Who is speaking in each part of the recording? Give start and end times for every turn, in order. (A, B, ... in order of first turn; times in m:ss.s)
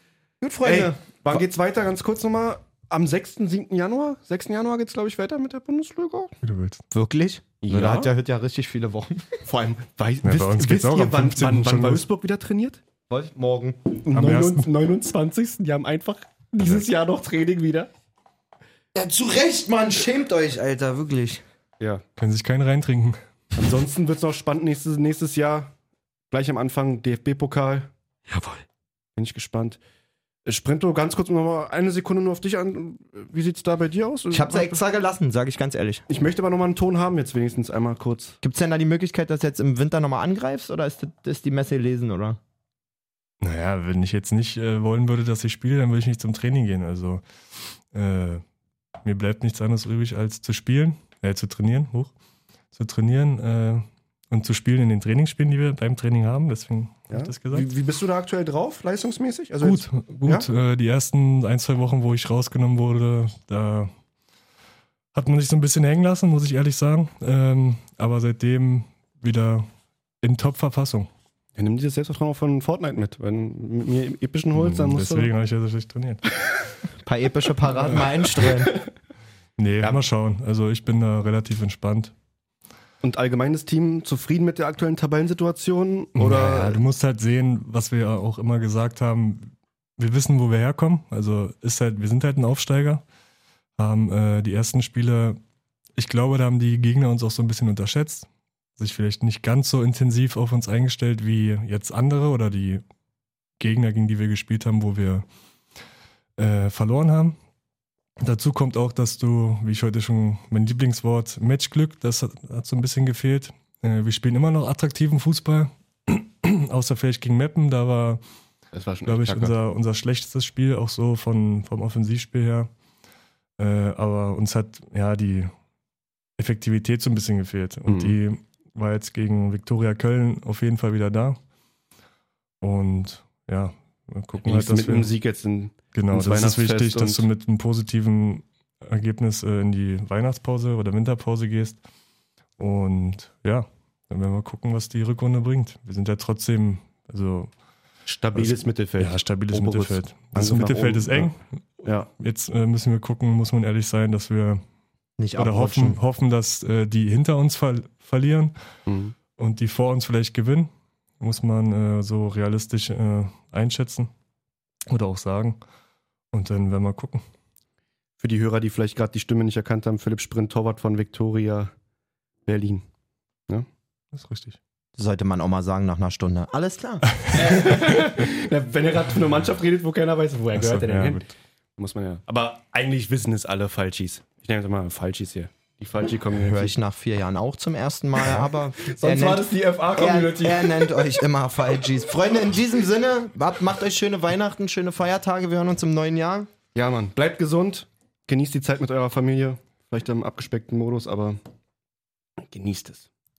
0:00.4-0:01.0 A
0:00.6-0:06.3 B
0:06.4-0:06.8 C
0:06.9-0:09.4 A
0:07.6-0:08.1 B
0:09.4-0:12.8 B
0:10.2-0:12.0 C
0:13.1-0:13.9 A
0:14.0-0:17.9 B
0:14.1-0:14.7 C
0:16.6-0:16.8 C
0:18.9-0:21.4 A
0:22.2-0:23.2 C
0:23.5-0:25.7 B
0:26.3-0:27.9 B
0:29.2-0:29.8 B
0:30.4-0:34.8 B
0:34.3-0:36.0 A
0:36.1-0:38.4 B
0:38.4-0:42.4 A
0:43.4-0:47.2 C
0:47.8-0:48.4 C
0:49.0-0:52.1 C
0:52.7-0:57.7 C
0:57.1-1:00.5 B
0:59.6-1:03.9 C
1:05.1-1:09.7 C
1:10.2-1:11.1 C
1:11.6-1:15.3 B
1:14.5-1:16.3 C
1:17.0-1:18.8 A
1:17.9-1:18.8 B
1:19.6-1:22.1 C
1:23.0-1:26.8 B
1:26.2-1:33.0 C
1:33.8-1:35.4 C
1:36.0-1:42.8 C
1:43.6-1:45.2 C
1:46.4-1:47.4 C
1:48.2-1:58.2 C
1:58.7-1:59.6 B
1:59.0-2:02.7 C
2:03.6-2:05.5 C
2:06.4-2:11.4 C
2:07.9-2:08.2 B
2:12.6-2:15.1 C
2:14.4-2:17.2 B
2:15.9-2:21.8 C
2:22.6-2:27.5 C
2:28.1-2:31.3 B
2:28.3-2:34.6 C
2:31.8-2:32.1 B
2:35.2-2:36.0 A
2:35.4-2:38.5 C
2:38.9-2:39.2 B
2:39.4-2:40.7 C
2:41.2-2:44.1 C
2:44.9-2:45.6 C
2:46.3-2:47.2 C
2:48.2-2:51.7 B
2:52.4-2:52.8 B
2:54.1-2:54.6 C
2:55.0-2:57.2 A
2:57.3-3:06.7 B
3:00.5-3:01.3 C
3:06.3-3:16.5 A
3:08.4-3:11.1 B
3:16.7-3:21.4 B
3:22.4-3:23.1 B